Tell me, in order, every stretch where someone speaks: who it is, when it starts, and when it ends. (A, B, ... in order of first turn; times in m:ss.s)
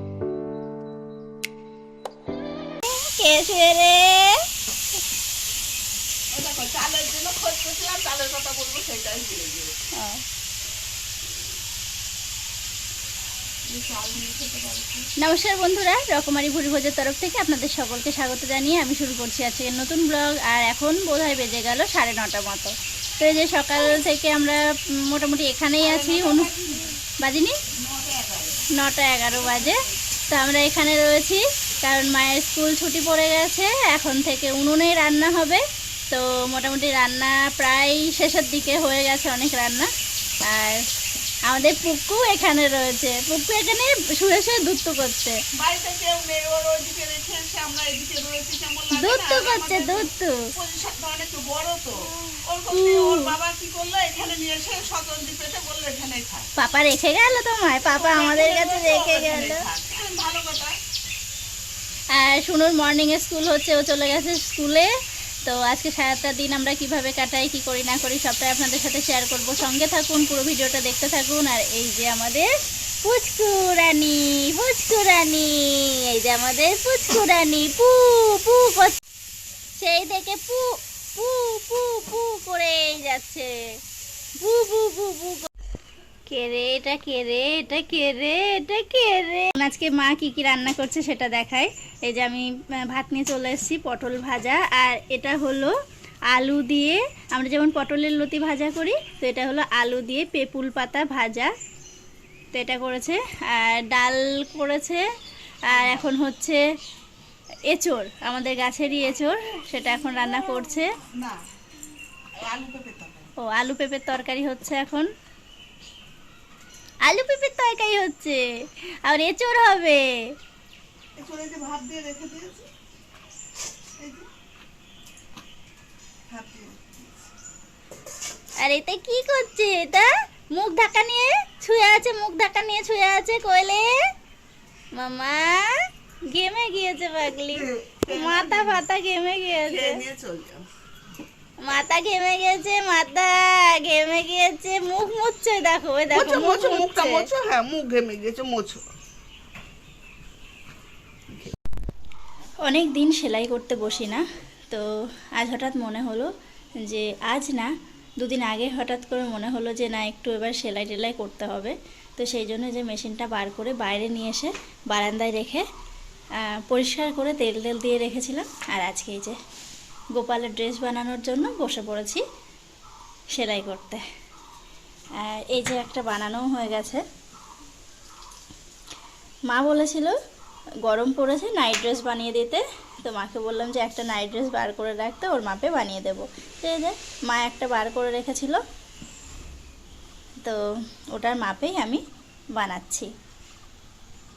0:02.8-0:04.4 A
0:06.3-0:09.7 B
0:09.9-0:10.2 A
0:13.7-0:15.1 B
0:15.2-0:26.5 A
0:25.8-0:27.0 B
0:27.2-0:27.6 A
0:27.8-0:28.7 B
0:28.7-0:39.9 A
0:40.4-0:40.8 A
0:41.5-0:45.4 A
0:45.6-0:56.5 B
0:48.9-0:50.4 A
0:52.7-0:53.3 A
0:56.6-0:59.6 A
0:57.8-1:00.8 B
1:02.1-1:04.9 A
1:05.4-1:12.5 A
1:13.0-1:19.0 A
1:19.8-1:23.5 A
1:24.4-1:25.5 A
1:26.3-1:35.7 A
1:36.3-1:41.5 A
1:42.5-1:45.0 A
1:45.7-1:46.0 B
1:45.7-1:46.6 A
1:47.7-1:50.9 A
1:52.4-1:53.3 B
1:53.4-1:55.1 A
1:57.1-1:58.4 A
1:59.0-2:00.0 A
2:01.2-2:02.7 B
2:04.0-2:04.3 B
2:06.3-2:07.3 B
2:08.6-2:13.9 A
2:14.9-2:20.0 A
2:17.5-2:18.8 B
2:19.6-2:20.6 B
2:21.6-2:27.3 A
2:26.1-2:28.8 B
2:32.6-2:36.3 A
2:36.8-2:45.6 A
2:46.4-2:49.4 A
2:50.1-2:52.2 A
2:53.3-2:54.0 A
2:55.2-2:57.0 A
2:59.5-3:00.2 A
3:00.8-3:08.6 A
3:11.1-3:12.0 A
3:12.5-3:13.1 A